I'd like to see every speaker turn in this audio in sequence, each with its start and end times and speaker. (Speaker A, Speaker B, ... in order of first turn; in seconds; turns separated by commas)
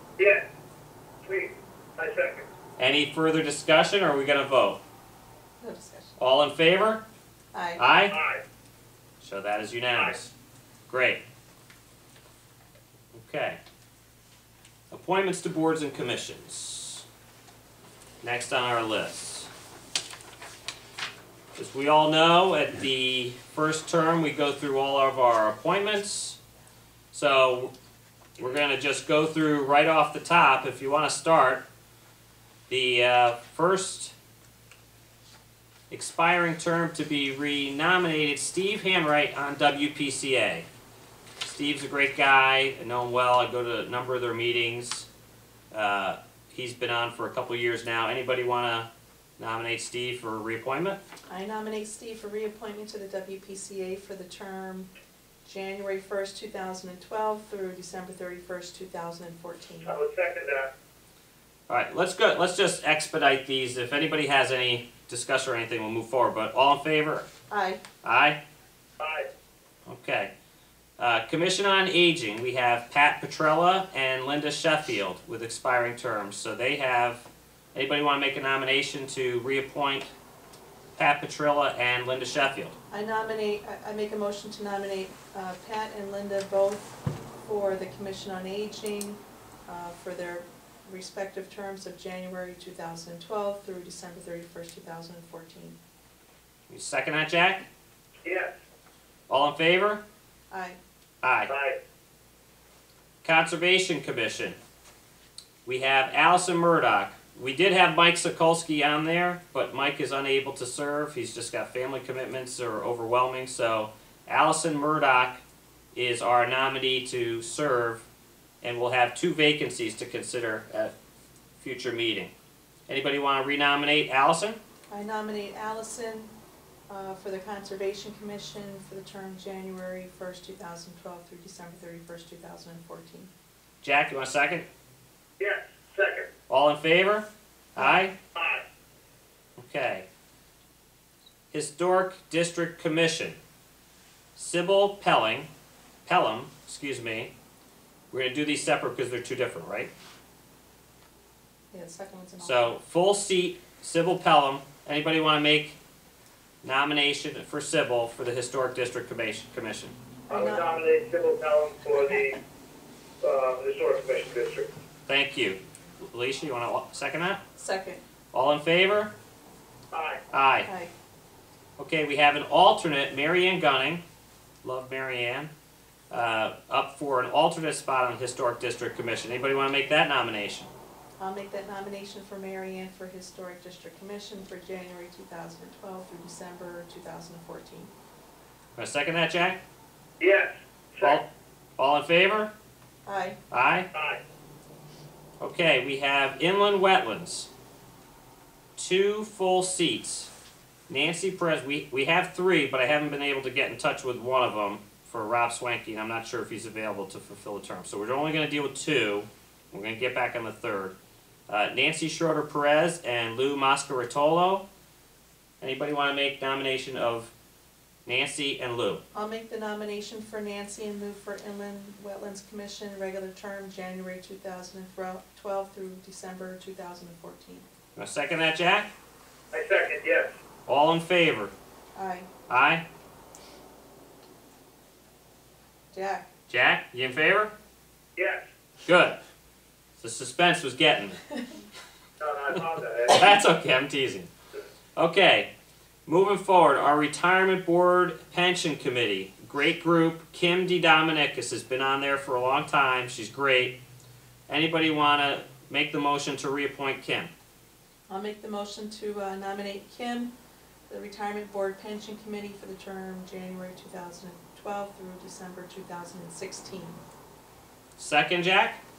Speaker A: 0.2-0.4, Speaker A: 1.2-2.5, Speaker B: 2.8-4.8, Speaker C: 5.6-6.1, Speaker B: 6.2-7.0, Speaker C: 7.5-7.8, Speaker B: 7.8-8.1, Speaker A: 8.1-8.4, Speaker B: 9.2-10.3, Speaker B: 10.9-11.2, Speaker B: 13.1-13.6, Speaker B: 14.9-17.1, Speaker B: 18.2-19.5, Speaker B: 21.6-26.4, Speaker B: 27.1-27.7, Speaker B: 28.4-31.6, Speaker B: 32.7-34.1, Speaker B: 35.9-40.7, Speaker B: 41.4-45.1, Speaker B: 45.7-51.0, Speaker C: 51.3-54.9, Speaker C: 55.5-60.0, Speaker A: 59.8-60.7, Speaker B: 61.7-67.3, Speaker C: 67.5-67.8, Speaker B: 68.0-68.4, Speaker A: 69.0-69.3, Speaker B: 69.9-70.3, Speaker B: 71.0-80.1, Speaker B: 81.0-82.8, Speaker C: 82.9-95.8, Speaker B: 96.7-97.7, Speaker A: 98.2-98.5, Speaker B: 99.3-100.0, Speaker C: 100.5-100.8, Speaker B: 101.2-101.5, Speaker A: 101.5-101.8, Speaker B: 103.2-104.6, Speaker B: 105.7-115.4, Speaker B: 115.9-118.0, Speaker B: 118.6-120.9, Speaker B: 121.6-122.3, Speaker B: 122.9-124.6, Speaker C: 124.9-126.3, Speaker C: 126.9-133.3, Speaker B: 133.8-134.7, Speaker A: 135.4-136.3, Speaker B: 136.5-138.1, Speaker C: 137.8-138.1, Speaker A: 138.3-138.6, Speaker B: 139.6-140.1, Speaker B: 141.5-143.4, Speaker B: 144.4-145.5, Speaker B: 146.1-147.3, Speaker B: 148.1-149.9, Speaker C: 151.7-152.7, Speaker B: 152.4-155.8, Speaker B: 156.6-159.9, Speaker C: 160.3-160.7, Speaker A: 160.3-162.4, Speaker A: 163.2-164.7, Speaker B: 165.1-167.4, Speaker C: 167.6-168.0, Speaker B: 168.3-169.1, Speaker A: 169.9-170.2, Speaker B: 170.3-170.7, Speaker C: 170.7-170.9, Speaker B: 171.8-174.0, Speaker B: 174.6-175.5, Speaker B: 176.1-180.7, Speaker C: 181.2-187.9, Speaker B: 188.8-189.6, Speaker A: 190.2-191.2, Speaker B: 191.8-192.5, Speaker C: 193.1-193.4, Speaker B: 193.5-193.9, Speaker A: 193.9-194.2, Speaker B: 195.4-197.5, Speaker B: 198.8-200.3, Speaker B: 200.9-210.9, Speaker B: 211.5-214.7, Speaker B: 215.6-217.3, Speaker B: 218.1-219.0, Speaker C: 219.1-227.7, Speaker B: 228.0-228.9, Speaker A: 229.5-230.3, Speaker B: 230.7-231.5, Speaker C: 231.9-232.3, Speaker B: 232.5-232.8, Speaker C: 235.9-236.3, Speaker B: 236.5-237.5, Speaker A: 238.2-238.4, Speaker B: 238.9-239.2, Speaker B: 240.0-241.2, Speaker A: 242.2-243.3, Speaker B: 243.1-244.3, Speaker B: 245.0-245.5, Speaker B: 246.1-253.8, Speaker B: 254.5-257.3, Speaker C: 258.1-260.3, Speaker C: 260.9-267.0, Speaker B: 268.0-268.8